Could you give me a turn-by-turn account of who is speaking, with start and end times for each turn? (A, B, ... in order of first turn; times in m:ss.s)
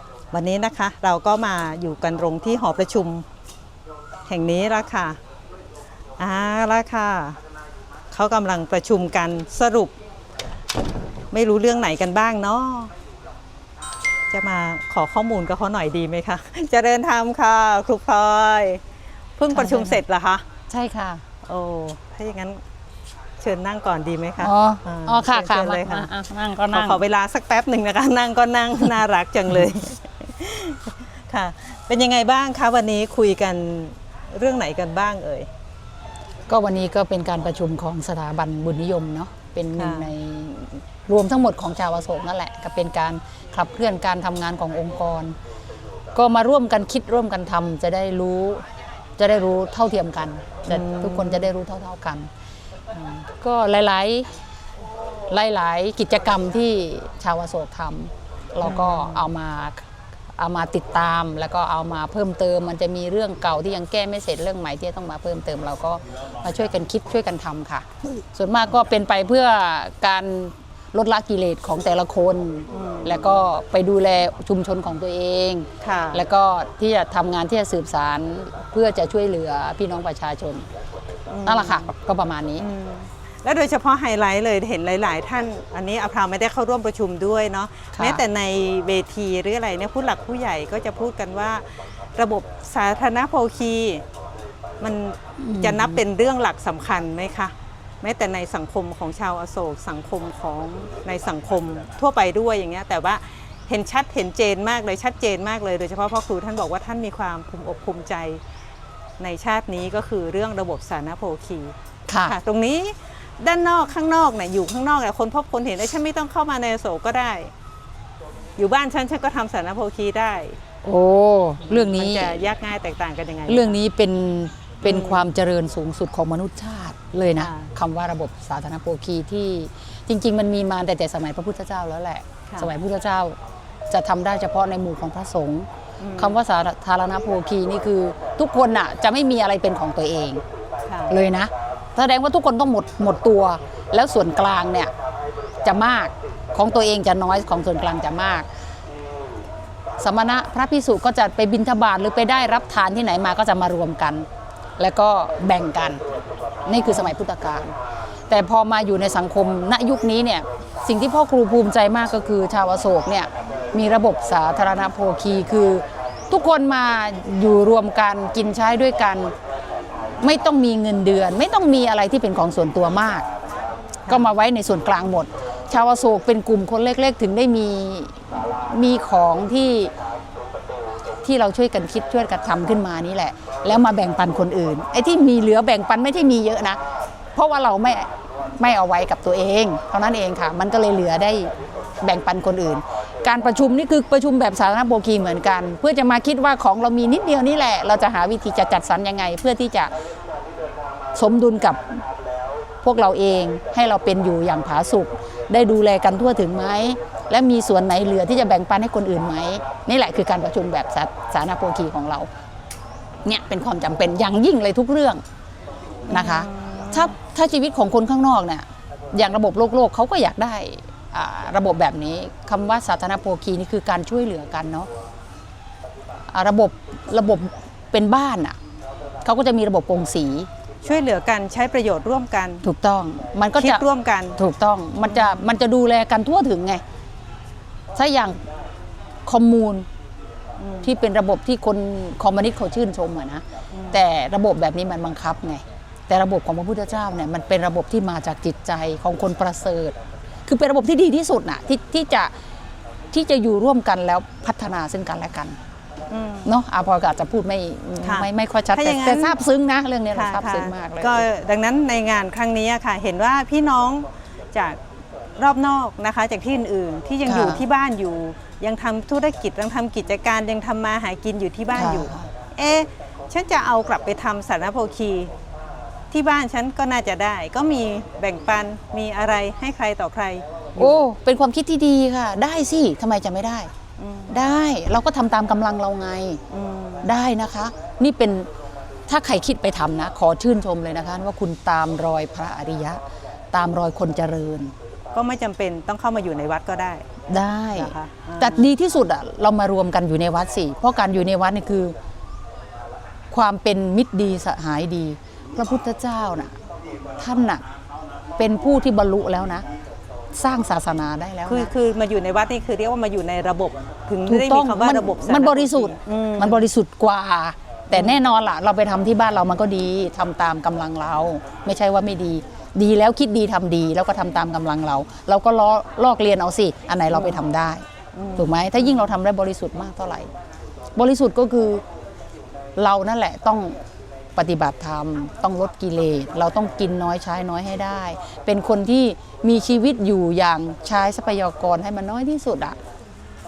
0:00.3-0:03.2 A
0:04.3-0:05.2 A
0:06.2-0:07.4 A
0:08.1-0:09.9 A
0:11.3-0:12.9 A
0:14.3-0:18.8 A
0:19.4-0:20.4 A
0:19.5-0:20.0 B
0:20.7-0:21.2 B
0:21.5-0:22.6 A
0:23.4-0:26.1 A
0:24.4-0:27.0 B
0:26.7-0:35.5 A
0:36.5-0:45.3 B
0:39.8-0:40.1 A
0:46.1-0:48.6 B
0:49.2-0:52.3 B
0:50.7-0:51.5 A
0:52.9-0:53.2 A
0:53.4-0:54.3 B
0:55.3-0:59.8 B
0:58.6-0:59.3 A
1:00.4-1:20.6 B
1:12.7-1:13.4 A
1:15.8-1:16.2 A
1:21.3-1:21.9 A
1:21.4-1:22.6 B
1:22.6-1:31.6 A
1:28.0-1:28.2 B
1:32.2-1:34.0 A
1:34.8-1:48.4 A
1:35.4-1:36.0 B
1:49.2-1:57.5 A
1:52.1-1:52.4 B
1:58.6-2:00.6 A
2:00.8-2:02.4 B
2:01.6-2:03.8 A
2:03.5-2:13.4 B
2:04.8-2:05.3 A
2:07.4-2:07.7 A
2:13.9-2:20.4 B
2:16.0-2:16.4 A
2:20.9-2:21.2 A
2:21.1-2:24.9 B
2:25.6-2:28.4 B
2:30.0-2:34.2 B
2:34.8-2:36.0 B
2:36.7-2:37.7 B
2:36.8-2:37.1 A
2:38.3-2:49.3 B
2:50.2-2:53.2 B
2:54.1-2:54.3 A
2:54.1-2:58.1 B
2:58.7-2:59.9 B
3:01.2-3:06.8 B
3:07.3-3:11.5 B
3:12.0-3:19.9 B
3:21.1-3:21.8 B
3:22.8-3:32.3 B
3:33.2-3:35.2 B
3:36.1-3:37.1 A
3:36.1-3:44.9 B
3:46.3-3:48.5 B
3:49.2-3:50.5 B
3:50.8-3:52.6 A
3:52.6-3:53.8 B
3:53.5-3:54.4 A
3:54.4-3:56.8 B
3:55.0-3:55.6 A
3:57.9-3:58.4 B
3:59.2-3:59.8 B
4:00.6-4:00.9 A
4:00.8-4:09.9 B
4:03.7-4:04.0 A
4:10.4-4:12.3 B
4:13.1-4:15.6 B
4:16.1-4:16.5 A
4:16.4-4:21.2 B
4:18.0-4:19.4 A
4:20.1-4:24.8 A
4:25.4-4:35.3 A
4:27.2-4:27.6 B
4:31.7-4:32.3 B
4:36.1-4:41.0 A
4:40.8-4:43.7 B
4:44.0-4:44.4 A
4:44.3-4:46.4 B
4:46.5-4:47.1 A
4:47.0-4:48.5 B
4:49.1-4:53.0 B
4:53.5-4:54.7 B
4:55.1-4:57.0 A
4:57.3-5:01.9 B
4:57.7-4:58.7 A
5:03.3-5:06.5 B
5:07.2-5:07.6 B
5:08.4-5:09.6 B
5:10.3-5:11.7 B
5:11.4-5:16.7 A
5:14.2-5:27.8 B
5:17.9-5:18.2 A
5:27.1-5:27.4 A
5:28.1-5:29.2 A
5:28.4-5:30.3 B
5:31.0-5:31.8 B
5:32.8-5:33.7 B
5:34.4-5:42.8 B